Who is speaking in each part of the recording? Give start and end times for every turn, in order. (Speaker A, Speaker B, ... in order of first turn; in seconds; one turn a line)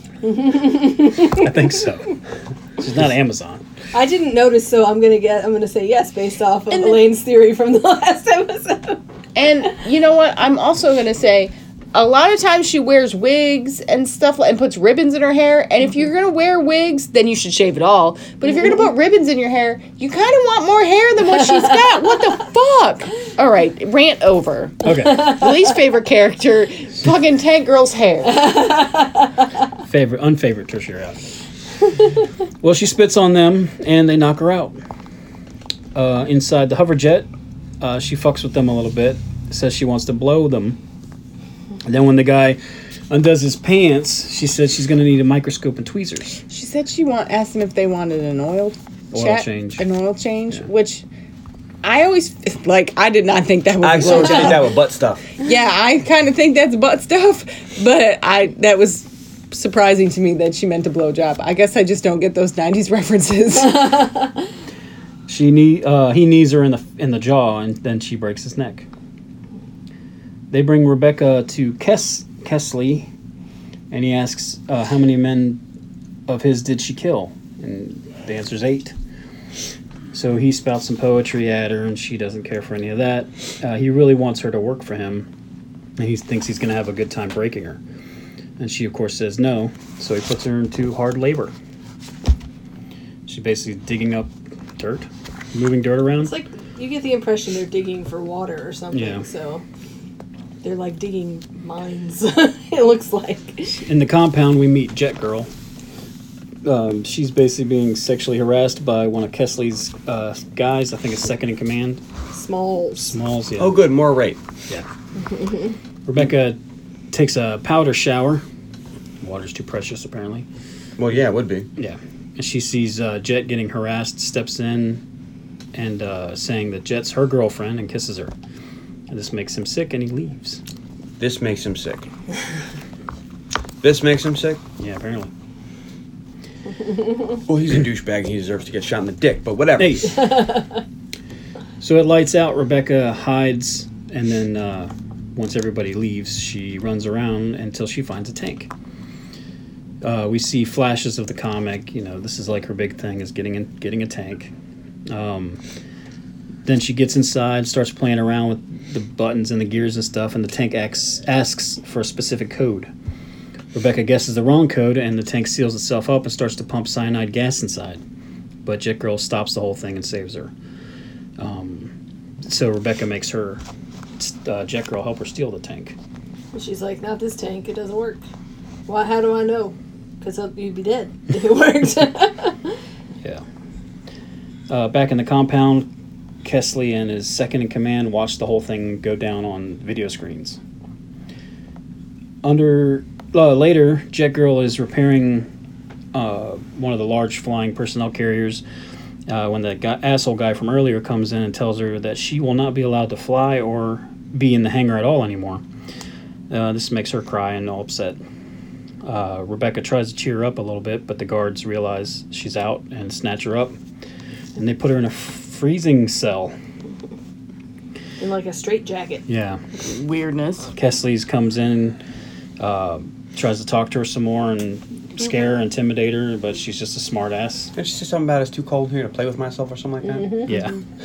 Speaker A: 0.2-1.5
Speaker B: 1.2-2.2
Speaker B: 2.8-3.6
Speaker A: 3.9-9.0
Speaker C: 6.7-7.0
Speaker C: 9.3-28.5
Speaker B: 24.8-25.4
Speaker A: 28.4-29.1
Speaker B: 29.9-31.2
Speaker B: 32.6-34.8
Speaker B: 35.9-37.3
Speaker B: 37.8-40.8
Speaker B: 41.8-46.4
Speaker C: 46.5-51.0
Speaker B: 49.1-49.8
Speaker C: 51.8-54.7
Speaker D: 53.8-55.2
Speaker C: 55.4-64.1
Speaker B: 65.3-68.9
Speaker B: 70.5-73.1
Speaker B: 73.9-75.6
Speaker B: 76.3-78.9
Speaker B: 80.1-85.3
Speaker B: 86.0-87.8
Speaker B: 88.6-91.5
Speaker B: 93.3-96.3
Speaker A: 96.2-99.6
Speaker B: 98.9-99.2
Speaker A: 100.6-103.8
Speaker B: 103.8-105.5
Speaker B: 106.6-112.0
Speaker A: 112.3-113.1
Speaker B: 113.0-113.8
Speaker D: 113.6-114.4
Speaker A: 115.3-115.7
Speaker B: 116.0-116.6
Speaker B: 117.1-118.4
Speaker B: 119.2-120.5
Speaker D: 121.0-121.7
Speaker B: 121.8-125.0
Speaker B: 125.7-128.3
Speaker B: 129.1-130.6
Speaker D: 131.2-132.1
Speaker D: 133.8-134.6
Speaker B: 134.8-135.3
Speaker D: 137.5-140.2
Speaker B: 139.8-140.3
Speaker A: 140.2-140.7
Speaker B: 141.8-148.7
Speaker B: 150.0-154.5
Speaker B: 155.1-155.6
Speaker B: 156.6-162.9
Speaker B: 163.7-168.0
Speaker B: 168.6-170.5
Speaker B: 171.4-171.9
Speaker B: 172.4-173.6
Speaker B: 174.2-175.9
Speaker A: 176.5-178.2
Speaker A: 178.9-182.7
Speaker B: 184.7-185.9
Speaker B: 186.4-190.6
Speaker B: 192.4-195.5
Speaker B: 196.1-198.6
Speaker B: 199.3-205.6
Speaker B: 206.5-208.2
Speaker B: 209.0-213.8
Speaker B: 214.6-216.5
Speaker A: 218.2-219.2
Speaker B: 219.3-219.6
Speaker C: 219.8-220.7
Speaker B: 220.7-222.0
Speaker B: 222.6-227.7
Speaker D: 227.7-230.5
Speaker A: 230.2-230.4
Speaker B: 230.4-230.8